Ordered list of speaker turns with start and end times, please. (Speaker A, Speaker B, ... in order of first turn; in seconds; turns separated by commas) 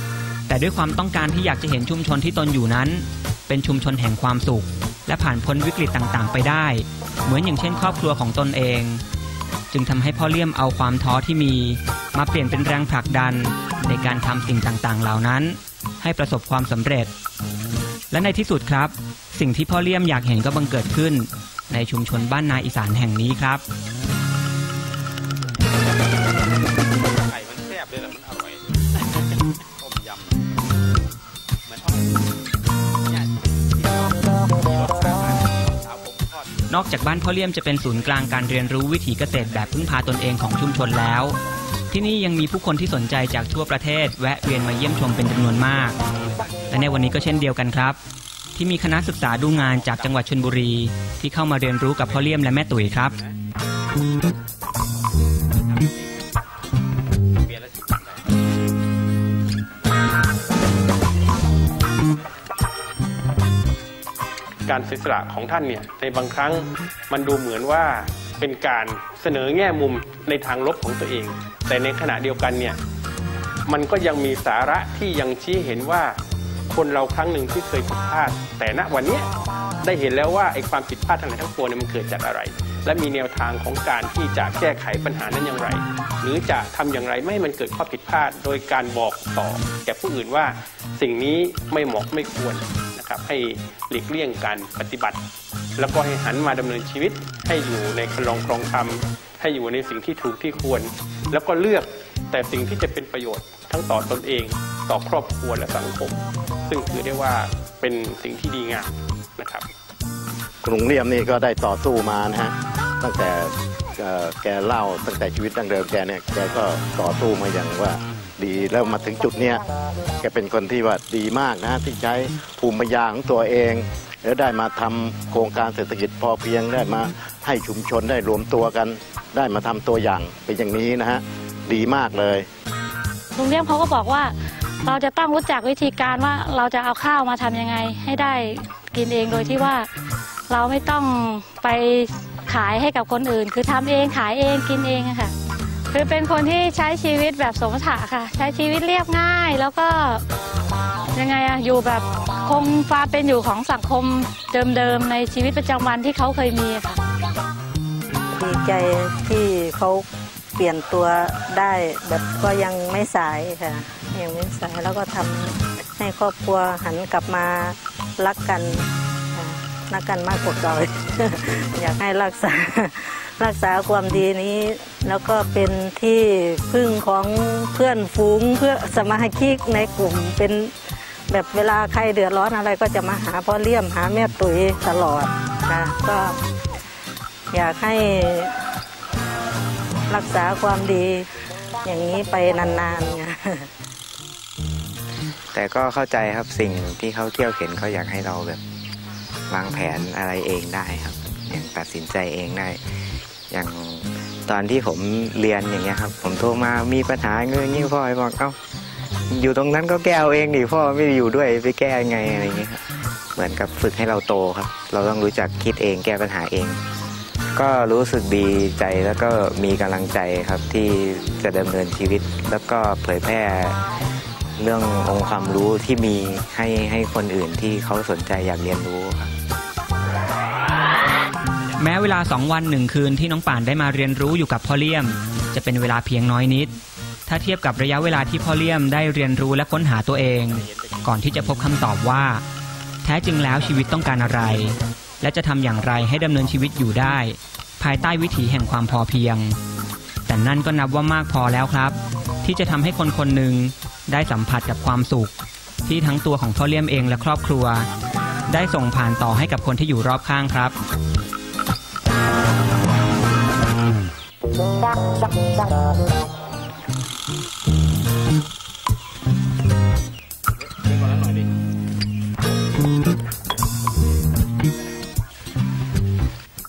Speaker A: 0.5-9.0, Speaker A: 9.7-17.1, Speaker A: 18.1-23.6, Speaker B: 25.8-30.4, Speaker B: 31.7-32.2, Speaker B: 33.0-37.2, Speaker A: 36.7-41.4, Speaker B: 37.8-40.3, Speaker A: 41.9-46.0, Speaker B: 45.5-47.1, Speaker A: 46.7-48.0, Speaker A: 48.5-53.2, Speaker B: 49.5-50.3, Speaker B: 52.0-53.4, Speaker B: 55.7-56.2, Speaker B: 57.4-58.5, Speaker C: 64.7-72.8, Speaker C: 73.7-76.1, Speaker C: 76.7-79.3, Speaker C: 79.8-95.2, Speaker C: 95.8-109.7, Speaker D: 110.6-119.6, Speaker D: 120.2-132.5, Speaker E: 133.4-139.9, Speaker E: 140.5-145.3, Speaker E: 145.9-150.2, Speaker E: 151.2-157.0, Speaker F: 158.3-160.1, Speaker F: 160.6-180.7, Speaker F: 181.3-186.4, Speaker F: 187.5-188.6, Speaker F: 190.1-191.3, Speaker F: 191.8-193.7, Speaker G: 195.7-198.6, Speaker G: 199.6-202.7, Speaker G: 203.6-208.5, Speaker G: 209.4-212.8, Speaker G: 213.4-216.7, Speaker G: 217.6-223.7, Speaker G: 224.7-229.3, Speaker A: 231.8-236.7, Speaker A: 237.3-242.4, Speaker B: 240.7-241.0, Speaker A: 243.0-249.6, Speaker A: 250.3-255.3, Speaker A: 255.9-257.9, Speaker A: 258.5-260.8, Speaker B: 270.7-271.5